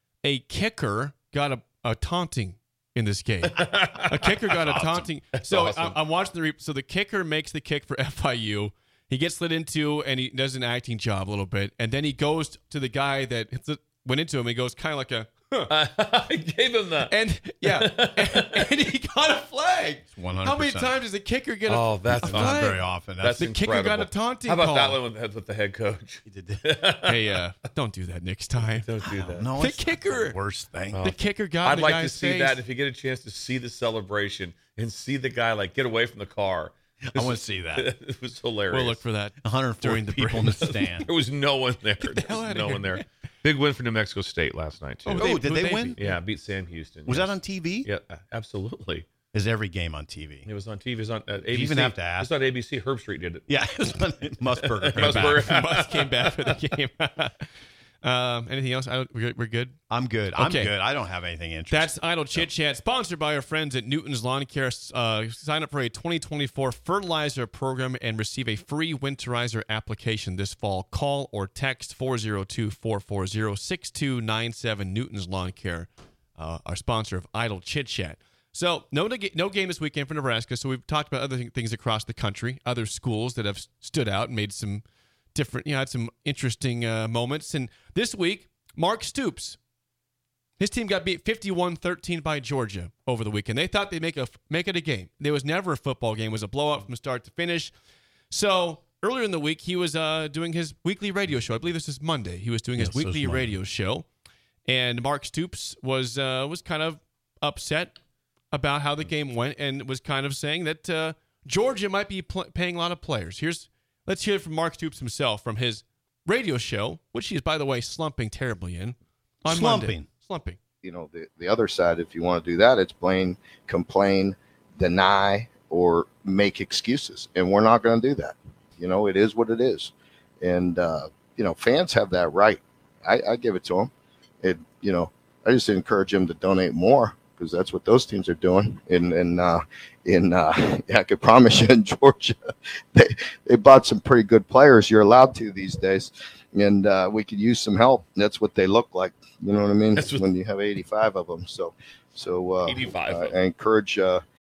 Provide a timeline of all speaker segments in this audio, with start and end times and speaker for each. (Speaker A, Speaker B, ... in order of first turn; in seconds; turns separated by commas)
Speaker A: 0.2-15.7, Speaker B: 3.5-4.3, Speaker C: 4.5-5.1, Speaker B: 5.3-6.0, Speaker B: 15.7-17.1, Speaker A: 17.1-22.8, Speaker B: 17.6-18.7, Speaker C: 20.1-20.9, Speaker B: 21.7-27.3, Speaker C: 22.2-23.5, Speaker A: 23.4-25.0, Speaker C: 26.2-26.6, Speaker A: 27.0-28.9, Speaker B: 28.7-29.5, Speaker C: 29.0-31.1, Speaker A: 29.6-30.4, Speaker B: 30.9-39.0, Speaker A: 31.0-32.6, Speaker C: 37.1-37.9, Speaker A: 38.7-40.6, Speaker C: 39.4-41.1, Speaker B: 40.6-45.4, Speaker A: 42.0-43.0, Speaker A: 45.0-46.1, Speaker C: 45.2-46.0, Speaker B: 46.0-49.1, Speaker C: 47.0-47.9, Speaker C: 49.3-50.5, Speaker B: 50.5-53.5, Speaker C: 51.5-52.3, Speaker C: 53.5-55.6, Speaker B: 54.6-56.5, Speaker A: 55.0-57.5, Speaker A: 58.0-59.8, Speaker C: 59.9-62.5, Speaker A: 60.4-60.7, Speaker A: 61.7-89.6, Speaker A: 90.6-97.7, Speaker A: 98.3-104.1, Speaker C: 102.8-103.5, Speaker A: 104.7-107.9, Speaker A: 108.5-120.6, Speaker C: 119.5-120.1, Speaker D: 120.8-133.9, Speaker D: 134.4-142.3, Speaker D: 142.9-154.2, Speaker B: 149.9-150.2, Speaker B: 152.7-153.3